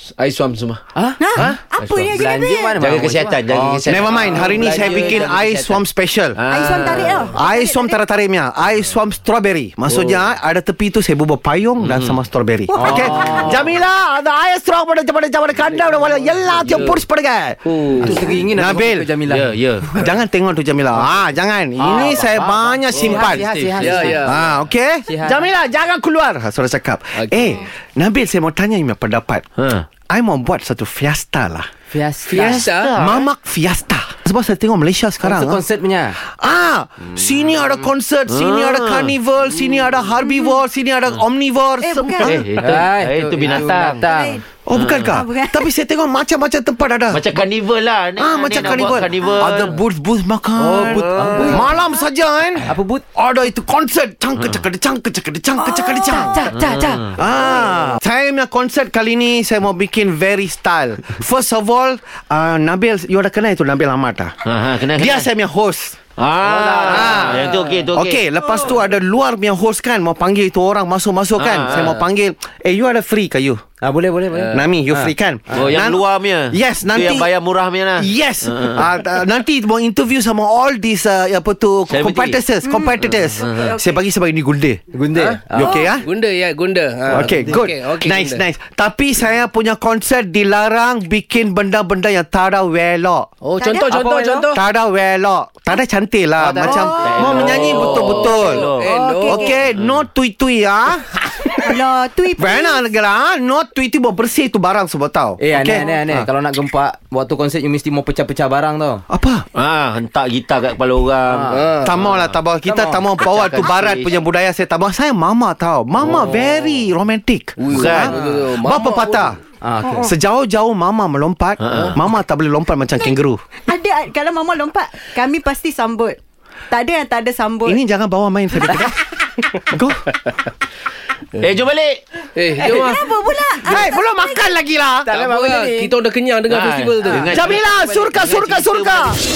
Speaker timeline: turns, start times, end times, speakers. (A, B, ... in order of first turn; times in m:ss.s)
0:00.2-0:00.8 A
0:01.0-0:01.2 B
0:01.2-0:02.8 C
0:01.4-0:02.2 A
0:02.0-0:05.8 B
0:02.8-0:05.3 A
0:03.9-0:06.4 D
0:06.4-0:07.4 A
0:06.5-0:08.0 C
0:07.3-0:19.2 D
0:09.9-0:10.3 A
0:11.8-0:12.2 A
0:12.7-0:13.7 B
0:12.9-0:13.4 A
0:16.7-0:17.0 E
0:17.7-0:18.2 A
0:18.0-0:19.5 B
0:19.3-0:20.1 A
0:19.9-0:29.4 D
0:21.8-0:24.4 B
0:23.0-0:24.0 A
0:23.2-0:24.4 E
0:25.1-0:25.4 B
0:27.2-0:27.6 E
0:29.6-0:29.9 A
0:30.1-0:31.7 D
0:31.9-0:32.6 B
0:32.3-0:33.3 A
0:32.4-0:32.9 E
0:32.9-0:35.6 D
0:35.2-0:36.2 B
0:36.3-0:42.4 D
0:38.3-0:39.2 A
0:40.2-0:40.6 C
0:41.8-0:42.4 C
0:42.2-0:44.1 A
0:42.6-0:44.4 B
0:44.0-0:44.4 C
0:44.6-0:47.3 D
0:44.7-0:45.2 A
0:45.1-0:45.7 C
0:47.1-0:49.8 A
0:48.2-0:56.4 D
0:50.6-0:51.7 B
0:50.8-0:51.6 A
0:52.6-0:53.0 B
0:55.6-0:57.2 C
0:56.4-0:57.0 B
0:56.5-0:57.1 A
0:57.1-1:04.4 D
1:04.5-1:05.3 A
1:04.9-1:06.0 D
1:06.2-1:08.2 A
1:06.4-1:07.8 B
1:06.8-1:13.6 D
1:11.4-1:12.1 A
1:13.8-1:15.7 B
1:14.5-1:17.3 D
1:15.5-1:18.9 A
1:18.0-1:24.8 D
1:21.9-1:22.4 A
1:22.6-1:24.0 C
1:23.1-1:23.8 A
1:24.9-1:25.8 B
1:25.2-1:28.4 E
1:25.5-1:26.1 D
1:25.6-1:26.0 C
1:27.1-1:33.3 D
1:33.4-1:34.6 E
1:33.6-1:34.5 C
1:34.5-1:41.5 D
1:36.4-1:37.3 B
1:36.6-1:37.2 C
1:37.0-1:38.9 A
1:37.2-1:39.6 E
1:38.4-1:39.6 C
1:39.6-1:40.0 A
1:41.6-1:42.9 C
1:42.4-1:46.3 D
1:45.4-1:49.0 B
1:49.1-1:49.5 D
1:49.6-1:52.4 A
1:51.3-1:51.7 B
1:51.5-1:52.0 E
1:51.8-1:59.4 D
1:52.6-1:53.0 B
1:53.2-1:54.2 A
1:56.0-1:56.3 A
1:57.6-1:59.3 E
1:57.7-1:58.2 A
1:59.6-2:00.1 B
2:00.0-2:03.4 D
2:01.6-2:02.0 A
2:03.6-2:06.2 C
2:06.7-2:07.8 C
2:07.6-2:10.1 D
2:11.4-2:12.0 A
2:12.4-2:13.1 E
2:12.6-2:14.6 C
2:13.6-2:15.1 D
2:15.0-2:15.9 B
2:15.1-2:17.9 E
2:16.5-2:19.2 A
2:17.3-2:19.2 D